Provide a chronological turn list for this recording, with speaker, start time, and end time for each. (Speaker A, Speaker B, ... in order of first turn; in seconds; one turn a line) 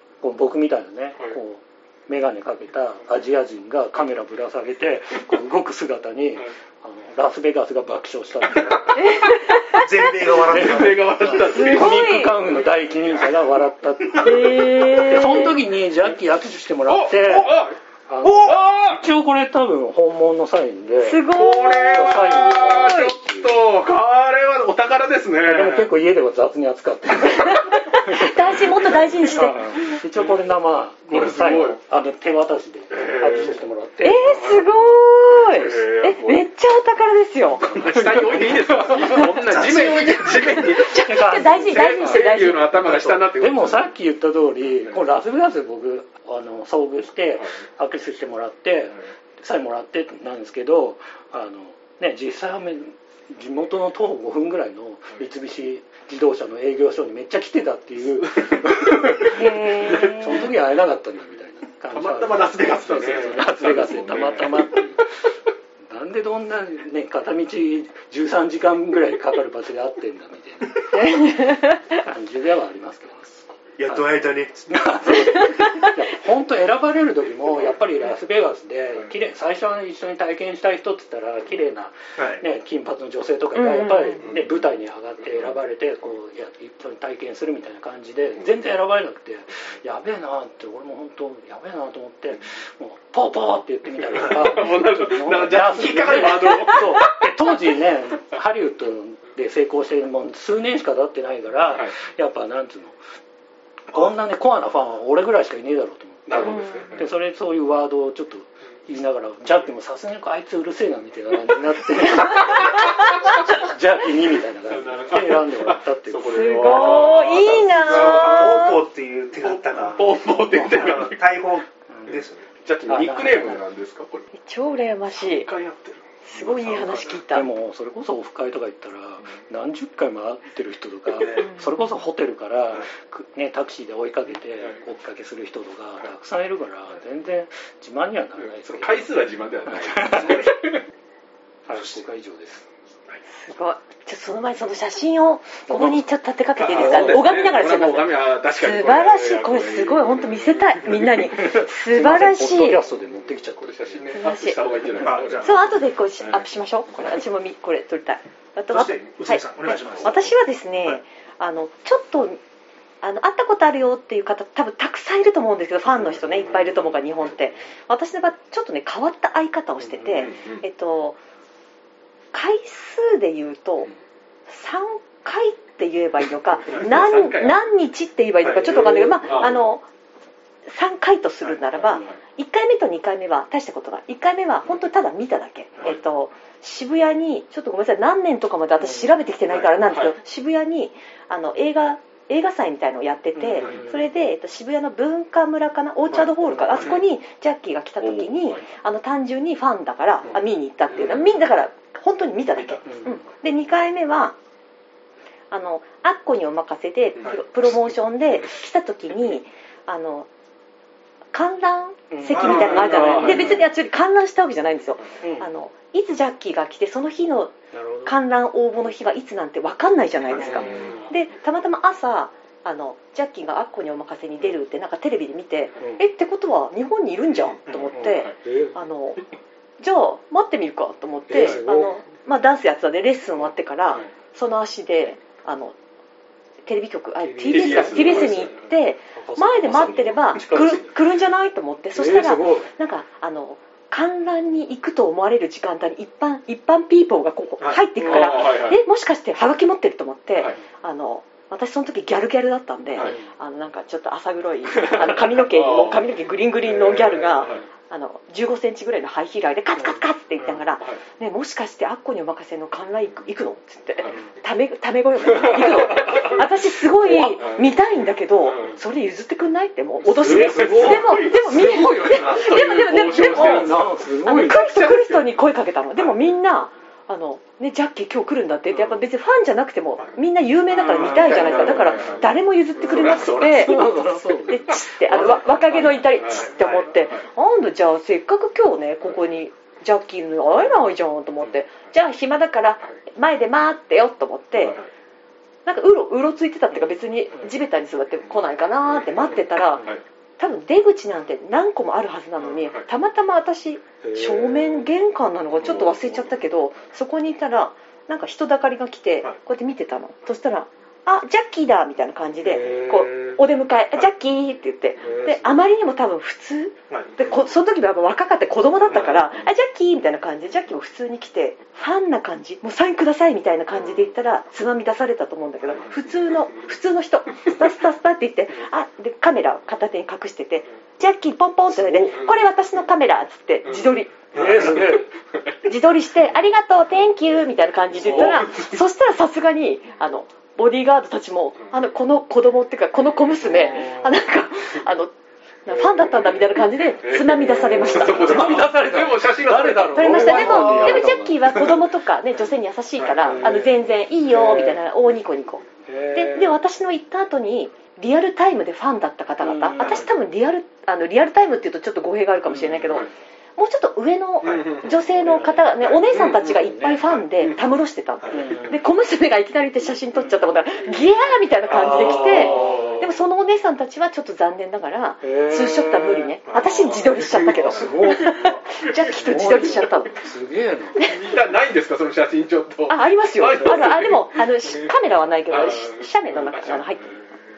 Speaker A: 0.2-9.0
Speaker B: 8.6-8.9
Speaker C: 9.0-9.8
Speaker B: 9.7-11.6
Speaker D: 10.4-12.4
Speaker A: 10.5-21.2
Speaker C: 11.5-12.4
Speaker C: 14.2-15.6
Speaker D: 16.9-17.8
Speaker D: 18.3-19.0
Speaker C: 21.0-23.1
Speaker D: 21.3-25.9
Speaker A: 21.9-23.5
Speaker A: 25.4-28.6
Speaker C: 27.3-29.7
Speaker D: 29.0-30.3
Speaker A: 29.2-34.3
Speaker D: 31.1-31.8
Speaker D: 32.9-33.6
Speaker C: 34.0-37.8
Speaker D: 34.3-34.7
Speaker D: 35.4-36.5
Speaker D: 37.6-43.9
Speaker A: 37.7-39.3
Speaker C: 38.9-43.2
Speaker B: 39.6-40.1
Speaker A: 41.0-42.2
Speaker A: 43.4-65.1
Speaker D: 58.2-60.4
Speaker C: 59.2-60.5
Speaker D: 61.9-64.7
Speaker A: 65.9-71.4
Speaker C: 70.9-71.8
Speaker A: 71.9-103.0
Speaker B: 73.8-75.1
Speaker B: 82.2-82.4
Speaker C: 83.5-84.2
Speaker D: 84.2-84.5
Speaker D: 94.0-97.3
Speaker C: 96.2-96.8
Speaker A: 103.9-117.6
Speaker D: 106.3-107.1
Speaker C: 106.3-106.9
Speaker D: 114.7-118.6
Speaker C: 116.2-118.8
Speaker B: 117.6-122.4
Speaker D: 119.4-121.3
Speaker A: 121.9-122.2
Speaker D: 122.5-124.3
Speaker A: 122.9-123.6
Speaker C: 124.4-125.5
Speaker D: 125.1-127.1
Speaker C: 126.2-127.5
Speaker A: 127.3-139.2
Speaker C: 131.3-131.9
Speaker D: 138.7-140.8
Speaker A: 139.7-140.4
Speaker A: 141.7-142.7
Speaker B: 141.7-142.0
Speaker C: 143.3-152.8
Speaker A: 145.7-146.0
Speaker D: 146.6-151.1
Speaker A: 146.8-147.4
Speaker A: 151.3-154.2
Speaker D: 153.6-155.7
Speaker C: 154.2-154.7
Speaker B: 154.9-155.7
Speaker C: 155.4-159.4
Speaker B: 158.7-161.0
Speaker C: 160.0-162.4
Speaker C: 163.0-171.2
Speaker A: 166.5-167.6
Speaker A: 169.8-170.3
Speaker D: 170.1-170.6
Speaker C: 172.3-173.9
Speaker C: 174.5-179.8
Speaker D: 176.7-177.6
Speaker D: 178.4-179.6
Speaker A: 178.8-179.6
Speaker C: 180.7-204.4
Speaker D: 181.8-182.2
Speaker A: 188.8-189.1
Speaker D: 189.5-190.1
Speaker A: 193.4-194.0
Speaker D: 193.6-193.8
Speaker A: 196.5-196.8
Speaker D: 196.7-197.0
Speaker D: 198.0-198.6
Speaker D: 200.9-201.4
Speaker A: 202.8-203.2
Speaker C: 205.5-210.3
Speaker C: 211.3-217.6
Speaker A: 212.1-213.6
Speaker B: 212.3-213.1
Speaker D: 212.4-213.6
Speaker A: 215.2-215.5
Speaker A: 217.7-218.1
Speaker C: 218.1-229.2
Speaker B: 220.3-220.6
Speaker A: 220.4-221.1
Speaker D: 220.4-221.1
Speaker D: 227.3-228.3
Speaker B: 227.7-227.9
Speaker A: 227.9-228.8
Speaker C: 229.8-235.8
Speaker A: 231.3-231.9
Speaker C: 236.6-294.8
Speaker A: 237.2-238.5
Speaker D: 237.5-238.6
Speaker A: 239.1-240.9
Speaker A: 241.9-242.7
Speaker D: 248.0-248.8
Speaker A: 253.0-253.2
Speaker D: 254.8-257.6
Speaker A: 256.9-257.6
Speaker A: 259.8-260.6
Speaker D: 265.2-266.4
Speaker A: 265.3-266.4
Speaker A: 267.0-267.4
Speaker D: 267.4-267.8
Speaker D: 268.4-268.8
Speaker D: 270.0-275.4
Speaker A: 270.1-272.4
Speaker A: 273.1-274.7
Speaker A: 280.7-282.2
Speaker D: 280.8-283.8
Speaker A: 282.9-286.0
Speaker D: 285.2-287.2
Speaker B: 286.4-286.8
Speaker A: 290.5-290.8
Speaker D: 294.6-294.9
Speaker C: 295.6-299.9
Speaker A: 299.2-300.0
Speaker C: 300.4-334.1
Speaker D: 302.4-302.9
Speaker A: 304.0-304.9
Speaker D: 305.6-306.3
Speaker A: 312.4-313.4
Speaker A: 315.0-315.6
Speaker B: 316.9-317.2
Speaker D: 318.9-319.2
Speaker A: 318.9-319.4
Speaker D: 325.7-326.3
Speaker A: 331.7-332.2
Speaker D: 333.6-335.6
Speaker A: 334.3-335.1
Speaker C: 335.6-345.1
Speaker D: 338.0-338.8
Speaker D: 343.4-343.9
Speaker A: 343.7-344.1
Speaker C: 345.6-348.7
Speaker D: 347.0-351.0
Speaker A: 347.4-351.9
Speaker C: 349.9-380.2
Speaker A: 353.2-354.8
Speaker A: 355.9-356.6
Speaker A: 359.4-360.1
Speaker A: 362.5-363.0
Speaker D: 364.4-365.0
Speaker A: 365.1-367.0
Speaker D: 365.8-366.6
Speaker D: 367.1-367.6
Speaker A: 368.3-368.8
Speaker A: 370.2-370.4
Speaker A: 371.7-373.1
Speaker D: 372.1-373.0
Speaker A: 375.2-376.4
Speaker B: 376.5-376.9
Speaker D: 376.6-378.2
Speaker A: 377.6-378.5
Speaker A: 379.0-381.0
Speaker D: 381.0-384.9
Speaker C: 382.9-387.2
Speaker D: 385.5-387.4